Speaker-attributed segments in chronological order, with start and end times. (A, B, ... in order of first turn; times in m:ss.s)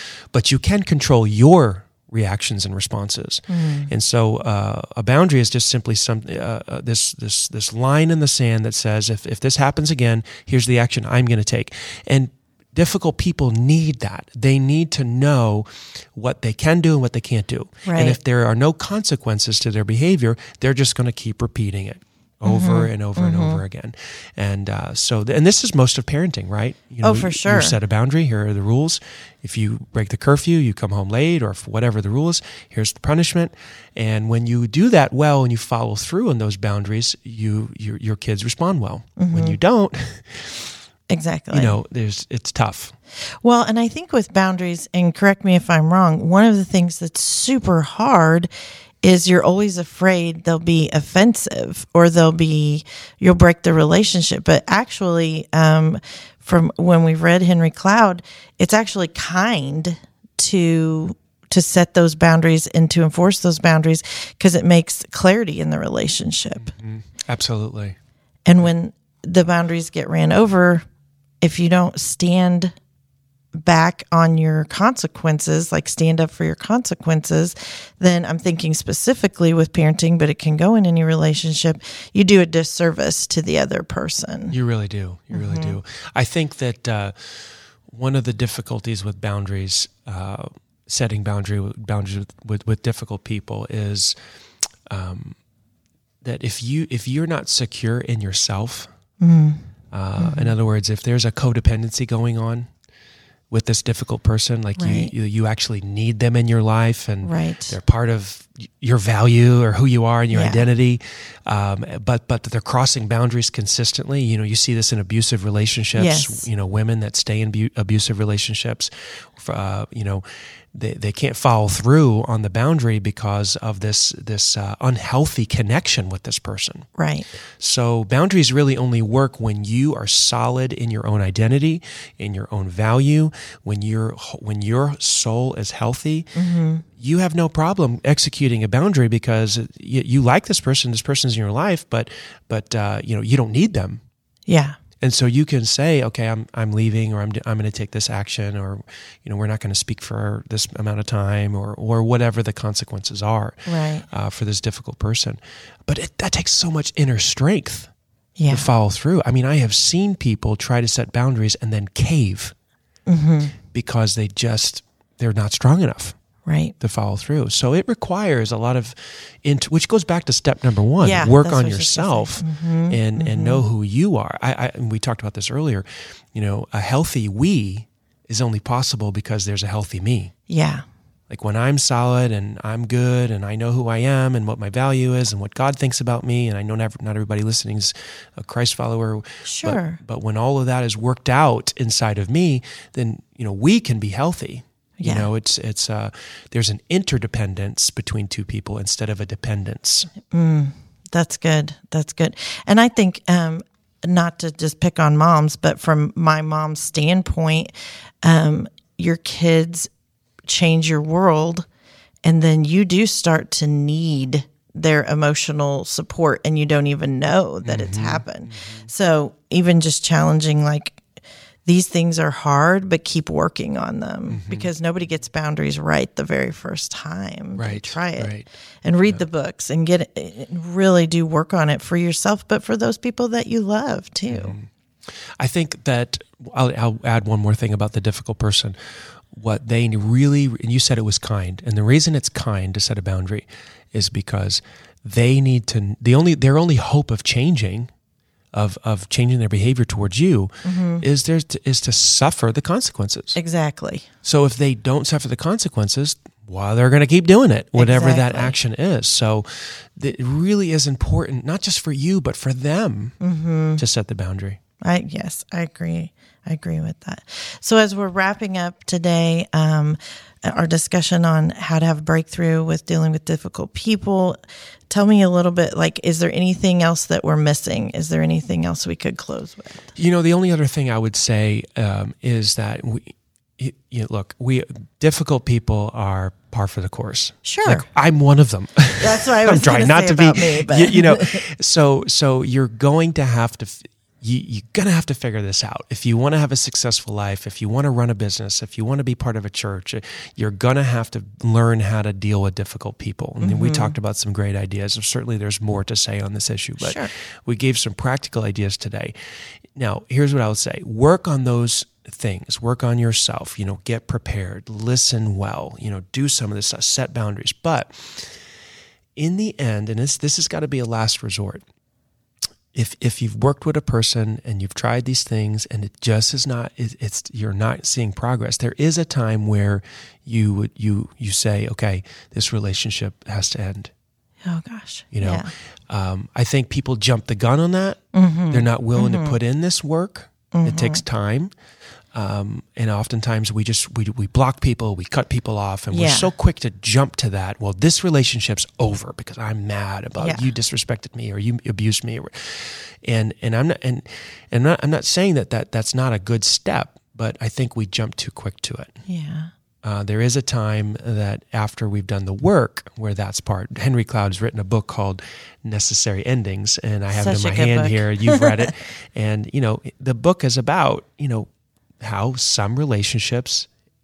0:00.3-0:40.7 A
0:03.5-0:03.9 B
0:17.8-0:18.2 B
0:22.4-0:23.6 B
0:27.0-0:27.7 B
0:39.2-0:39.6 B
0:41.1-0:41.8 B
0:41.5-0:42.9 A
0:43.4-0:48.5 B
0:49.0-1:06.7 B
1:06.6-1:08.0 A
1:08.4-1:10.8 B
1:11.4-1:12.7 B
1:13.5-1:24.6 B
1:24.5-1:34.2 A
1:25.3-1:25.8 B
1:34.9-1:35.4 A
1:36.2-1:38.9 A
1:39.2-1:39.6 B
1:39.9-1:42.7 A
1:40.2-1:40.5 B
1:43.5-2:06.9 A
1:44.8-1:45.1 B
1:47.2-1:47.8 B
1:50.3-1:50.6 B
1:55.9-1:56.5 B
2:07.0-2:07.3 B
2:07.6-2:16.3 A
2:16.3-2:16.8 B
2:16.9-2:24.0 A
2:24.5-2:24.8 B
2:25.0-2:37.9 A
2:33.6-2:34.0 B
2:38.4-2:38.7 B
2:38.5-2:42.5 A
2:43.1-2:43.6 B
2:43.7-2:46.2 A
2:46.4-2:46.7 B
2:46.8-3:00.3 A
2:51.0-2:53.6 B
3:00.5-3:00.8 B
3:01.3-3:20.1 A
3:09.4-3:10.0 B
3:15.0-3:15.3 B
3:20.3-3:27.7 B
3:28.2-3:29.9 B
3:30.5-3:31.7 B
3:32.2-3:41.0 B
3:37.6-3:38.9 A
3:41.6-3:54.6 B
3:44.3-3:44.7 A
3:47.6-3:48.5 A
3:54.3-3:58.8 A
3:59.3-4:07.9 A
4:08.5-4:13.4 A
4:10.6-4:11.0 B
4:13.4-4:14.0 B
4:14.2-4:23.1 A
4:17.7-4:18.6 B
4:23.2-4:23.8 B
4:23.8-4:24.6 A
4:24.8-4:34.4 B
4:34.9-4:39.9 B
4:39.9-5:09.1 A
4:47.4-4:47.9 B
4:49.0-4:51.4 B
5:03.4-5:03.9 B
5:06.8-5:07.1 B
5:09.7-5:18.3 A
5:19.2-5:21.6 A
5:22.7-5:33.9 A
5:34.4-5:35.5 B
5:35.1-5:41.5 A
5:38.1-5:39.4 B
5:40.5-5:41.0 B
5:42.1-5:59.0 A
5:45.9-5:46.3 B
5:50.2-5:50.5 B
5:59.1-5:59.5 B
5:59.8-6:11.5 A
6:07.1-6:08.7 B
6:12.0-6:13.7 A